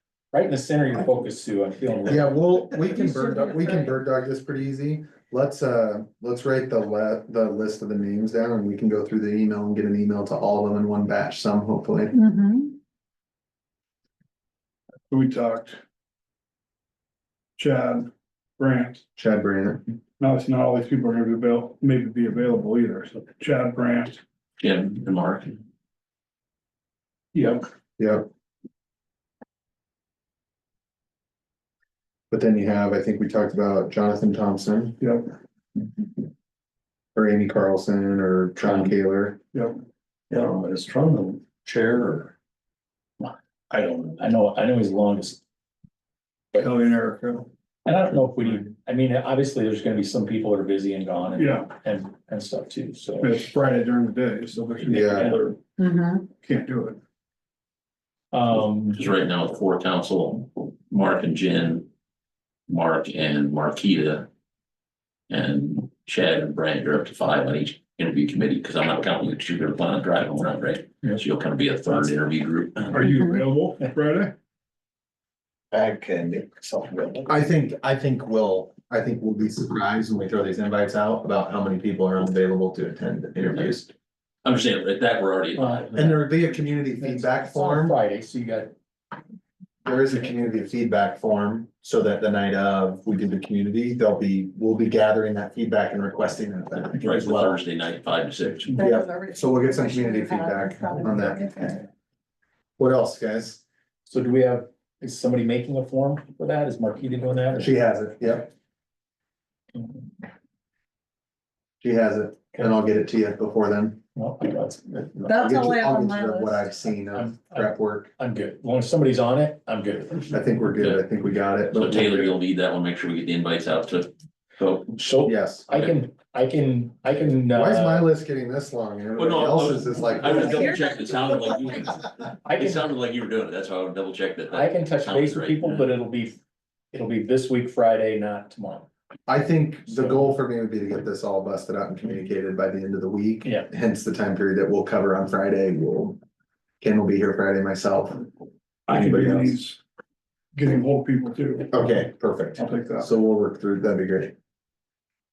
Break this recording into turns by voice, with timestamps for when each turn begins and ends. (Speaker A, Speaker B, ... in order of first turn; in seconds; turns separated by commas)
Speaker A: 0.3-2.3, Speaker B: 2.1-12.2, Speaker C: 2.8-4.0, Speaker C: 12.1-12.8, Speaker D: 15.1-15.8, Speaker D: 17.6-19.0, Speaker B: 19.2-19.9, Speaker D: 20.2-24.2, Speaker E: 24.6-25.6, Speaker D: 27.3-27.7, Speaker B: 28.0-28.3, Speaker B: 32.3-35.0, Speaker D: 35.0-35.3, Speaker B: 37.1-39.4, Speaker A: 38.6-38.9, Speaker D: 39.5-39.8, Speaker A: 40.3-42.3, Speaker A: 43.2-45.4, Speaker D: 46.5-47.5, Speaker A: 47.9-53.4, Speaker D: 51.4-51.7, Speaker D: 53.2-55.6, Speaker B: 54.9-55.3, Speaker C: 55.8-56.3, Speaker D: 56.4-57.0, Speaker A: 58.3-59.0, Speaker E: 58.9-61.9, Speaker E: 62.7-64.3, Speaker E: 65.3-73.0, Speaker D: 72.9-74.4, Speaker C: 73.0-73.4, Speaker B: 75.7-83.9, Speaker E: 84.4-85.8, Speaker A: 85.6-88.7, Speaker B: 85.9-88.0, Speaker B: 89.8-97.6, Speaker E: 96.9-98.8, Speaker C: 98.7-101.9, Speaker B: 98.8-101.8, Speaker B: 102.8-103.6, Speaker A: 104.1-107.7, Speaker B: 107.5-108.5, Speaker B: 111.8-114.0, Speaker A: 114.2-115.5, Speaker B: 115.2-118.1, Speaker C: 115.3-116.9, Speaker A: 117.1-120.3, Speaker B: 120.3-122.4, Speaker E: 121.7-125.0, Speaker A: 125.0-128.1, Speaker B: 125.2-125.7, Speaker B: 127.5-130.8, Speaker E: 129.2-135.9, Speaker A: 130.3-130.7, Speaker C: 130.4-131.5, Speaker A: 132.4-132.9, Speaker A: 134.5-136.4, Speaker A: 136.9-138.9, Speaker B: 139.3-146.2, Speaker A: 139.9-140.3, Speaker B: 146.8-148.3, Speaker D: 148.9-149.8, Speaker B: 148.9-149.6, Speaker D: 150.6-151.7, Speaker B: 151.7-154.3, Speaker D: 152.6-153.1